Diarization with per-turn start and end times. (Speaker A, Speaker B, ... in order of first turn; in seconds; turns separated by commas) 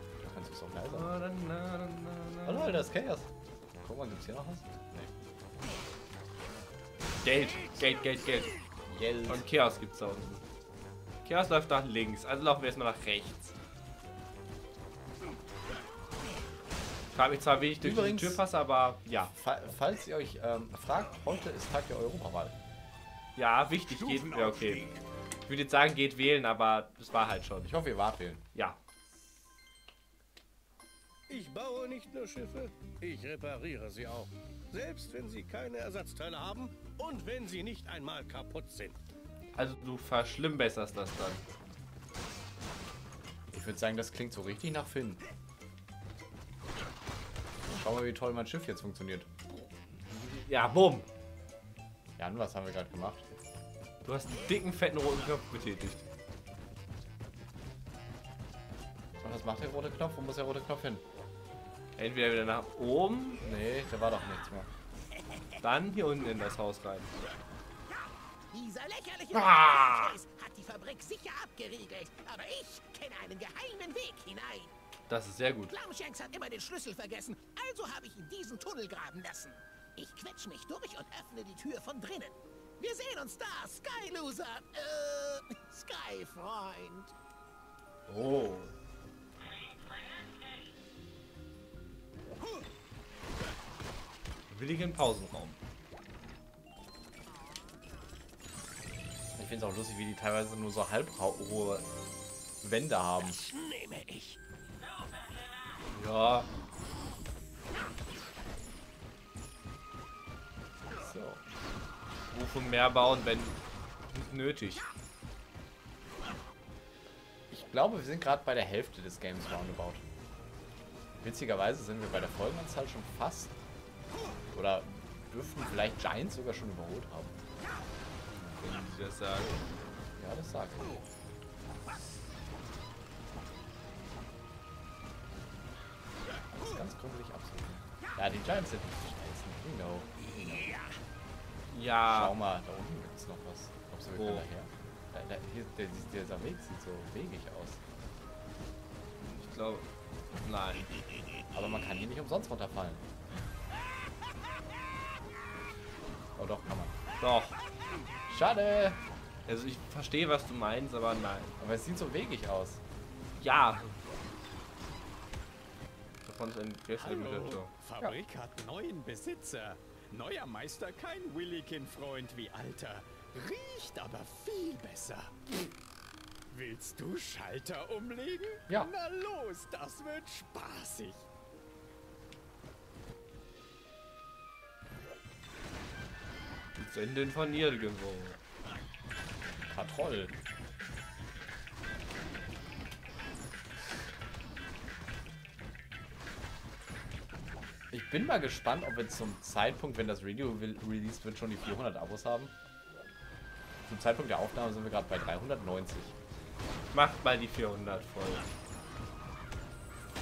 Speaker A: 0.2-1.1, Speaker B: 0.9-2.8, Speaker A: 2.4-3.3, Speaker A: 3.8-5.1, Speaker B: 7.2-8.5, Speaker A: 8.9-9.4, Speaker B: 9.3-10.4, Speaker B: 11.2-13.5, Speaker B: 17.1-19.3, Speaker A: 17.8-18.4, Speaker A: 19.4-22.6, Speaker B: 23.4-24.9, Speaker B: 25.4-27.7, Speaker A: 27.6-28.4, Speaker C: 31.3-39.0, Speaker B: 39.5-41.4, Speaker A: 43.5-45.2, Speaker A: 47.7-49.3, Speaker B: 50.4-51.0, Speaker A: 52.2-53.2, Speaker B: 54.0-56.0, Speaker A: 59.2-61.0, Speaker B: 62.0-63.4, Speaker A: 63.4-64.7, Speaker B: 65.6-67.1, Speaker D: 68.5-74.7, Speaker B: 69.3-70.1, Speaker B: 75.1-75.7, Speaker D: 75.7-87.1, Speaker B: 88.1-88.7, Speaker B: 94.5-95.6, Speaker A: 99.3-101.8, Speaker A: 102.6-103.4, Speaker D: 103.7-104.3, Speaker B: 105.9-106.5, Speaker A: 111.0-111.4, Speaker B: 112.3-113.6, Speaker B: 114.1-114.9, Speaker A: 117.5-120.0, Speaker A: 121.2-123.5, Speaker A: 124.5-127.3, Speaker B: 128.4-129.6, Speaker A: 130.2-131.0, Speaker A: 136.6-140.1, Speaker B: 141.7-142.3, Speaker A: 142.1-147.8, Speaker B: 144.2-144.4, Speaker B: 149.2-149.9, Speaker B: 150.4-150.9, Speaker A: 151.5-153.0, Speaker A: 156.3-156.9, Speaker B: 157.2-157.6, Speaker A: 158.3-159.0, Speaker B: 159.4-161.5, Speaker A: 161.6-162.8, Speaker B: 163.4-164.0, Speaker B: 166.2-167.7, Speaker E: 167.0-175.5, Speaker E: 176.5-181.2, Speaker B: 186.8-188.4, Speaker A: 189.7-190.3, Speaker A: 197.9-202.5, Speaker A: 203.8-206.1, Speaker B: 206.9-208.4